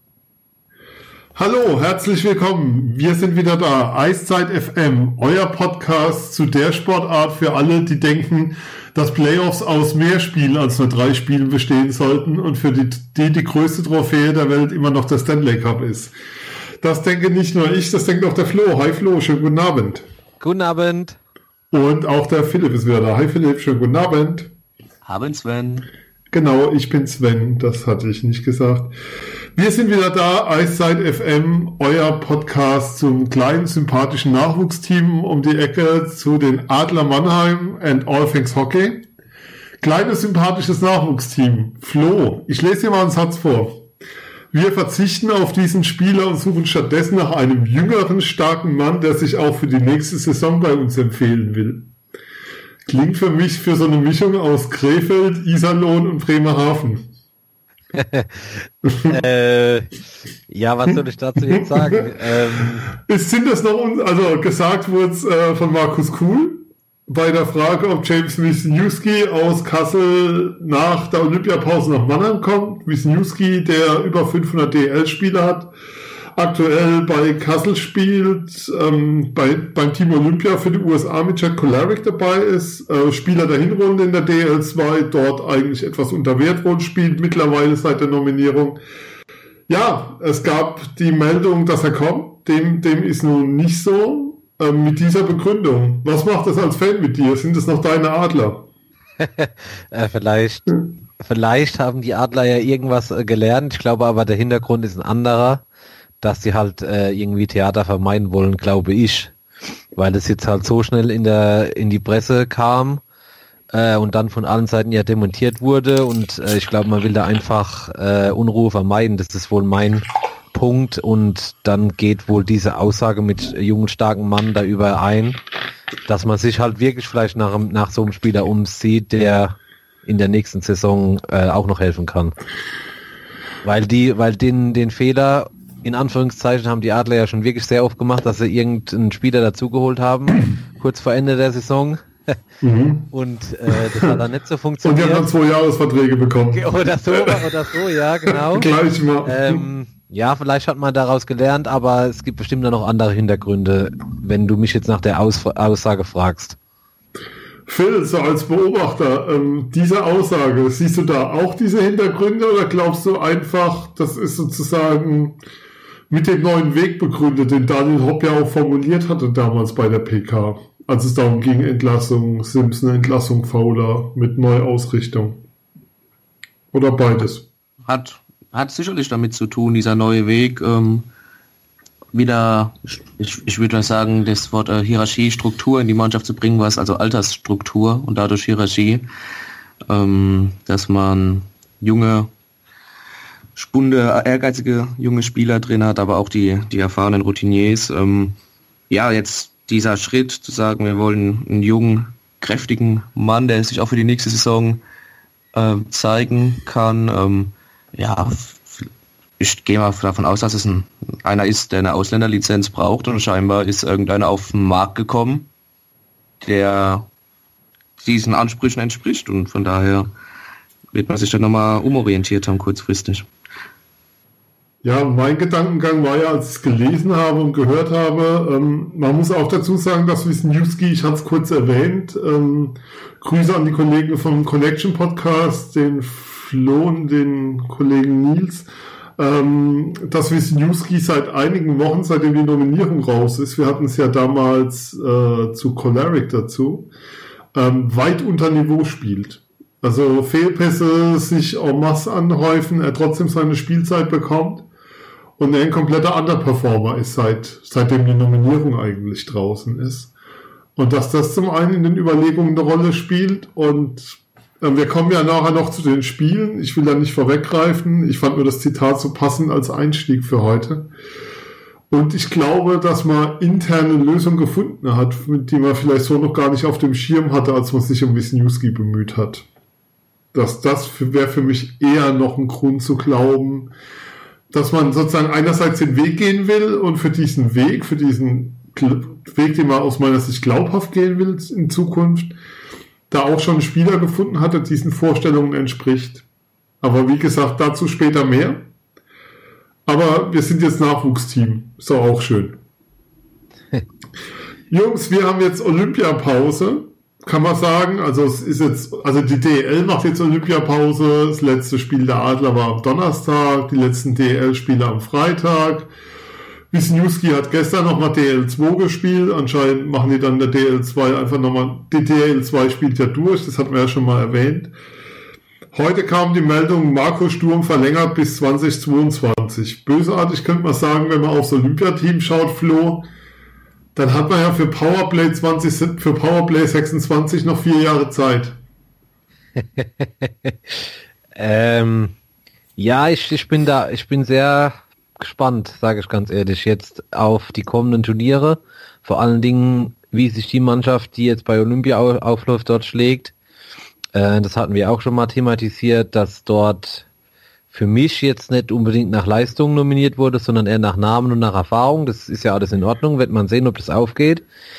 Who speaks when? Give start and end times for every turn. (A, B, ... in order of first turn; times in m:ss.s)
0:01.4-0:16.1 A
0:16.8-0:20.0 A
0:20.4-0:21.2 B
0:21.7-0:24.5 A
0:25.0-0:25.9 C
0:26.3-0:28.9 A
0:29.6-0:39.1 A
0:39.8-0:43.8 A
0:44.5-0:51.9 A
0:52.9-0:57.1 A
0:57.9-1:02.9 B
0:58.8-0:59.2 A
1:01.5-1:02.1 A
1:02.9-1:15.7 A
1:16.4-1:28.8 A
1:29.7-1:38.7 A
1:39.2-1:45.6 B
1:46.2-1:49.4 B
1:50.0-1:53.0 B
1:53.7-2:05.4 B
2:06.1-2:12.4 B
2:13.6-2:22.4 B
2:22.6-2:23.1 A
2:23.1-2:25.3 B
2:23.7-2:24.2 A
2:24.8-2:27.5 A
2:26.5-2:36.6 B
2:28.3-2:29.7 A
2:37.7-2:45.4 A
2:46.1-2:55.4 A
2:56.7-2:57.5 A
2:57.9-3:01.1 C
3:02.1-3:09.1 C
3:09.9-3:12.3 C
3:13.6-3:18.4 C
3:18.9-3:24.8 C
3:25.5-3:28.9 C
3:29.4-3:35.5 C
3:36.4-3:37.1 C
3:38.0-3:40.1 C
3:40.9-3:43.3 C
3:44.8-4:06.9 A
4:07.5-4:14.7 A
4:15.4-4:20.1 A
4:20.8-4:30.9 A
4:31.9-4:39.5 A
4:40.3-4:43.7 A
4:44.5-4:52.4 A
4:53.1-4:56.2 A
4:56.8-4:58.6 A
4:59.9-5:02.6 A
5:04.7-5:15.9 A
5:16.7-5:24.7 A
5:25.7-5:33.1 A
5:34.0-5:38.6 A
5:39.6-5:42.2 B
5:42.8-5:53.3 B
5:54.1-5:57.1 B
5:57.7-6:04.4 B